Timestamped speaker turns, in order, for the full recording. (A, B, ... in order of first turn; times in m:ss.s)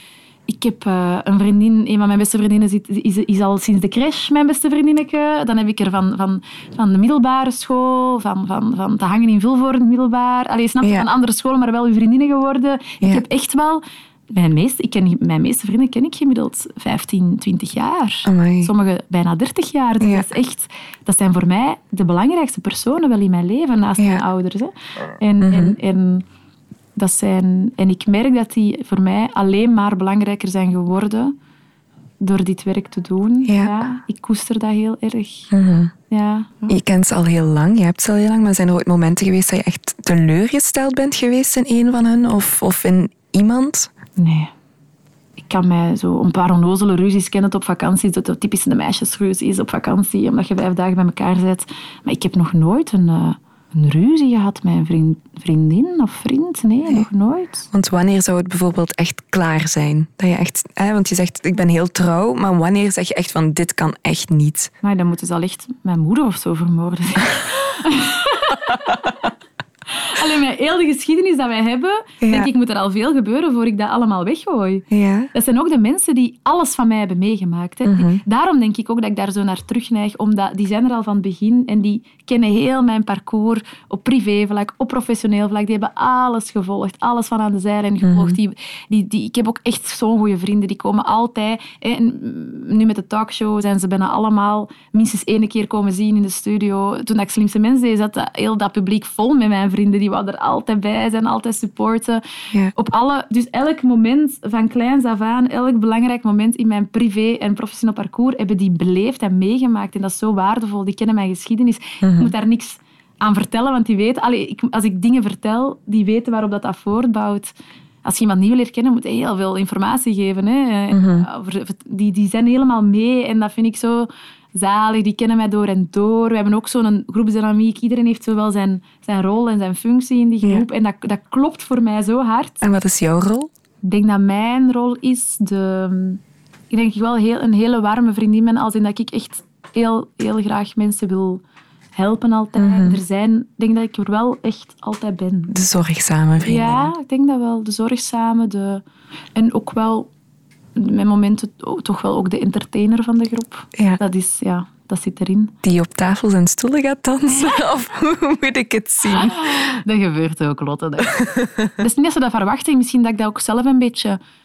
0:00.5-0:26.2 A
0:10.8-0:11.1 B
0:18.2-0:18.7 B
0:20.0-0:20.2 B
0:24.0-0:24.2 B
0:25.4-0:25.8 B
0:27.0-0:31.3 A
0:32.2-0:35.5 A
0:33.4-0:33.8 B
0:35.5-0:35.9 B
0:36.1-0:36.8 A
0:36.7-0:43.9 B
0:44.2-0:44.5 A
0:45.4-0:57.7 A
0:57.7-1:04.7 B
1:04.8-1:09.3 A
1:09.9-1:42.2 A
1:12.2-1:12.5 B
1:14.9-1:15.3 B
1:17.8-1:18.2 B
1:28.0-1:28.4 B
1:42.7-1:57.5 A
1:52.0-1:52.3 B
1:58.0-2:12.6 A
2:00.9-2:01.2 B
2:12.6-2:13.5 B
2:13.8-2:21.4 A
2:22.0-2:25.5 A
2:22.5-2:23.0 B
2:25.5-2:26.9 B
2:26.4-2:28.8 A
2:29.4-2:30.1 A
2:30.8-2:35.5 A
2:35.6-2:39.8 B
2:39.0-2:44.2 A
2:41.1-2:41.6 B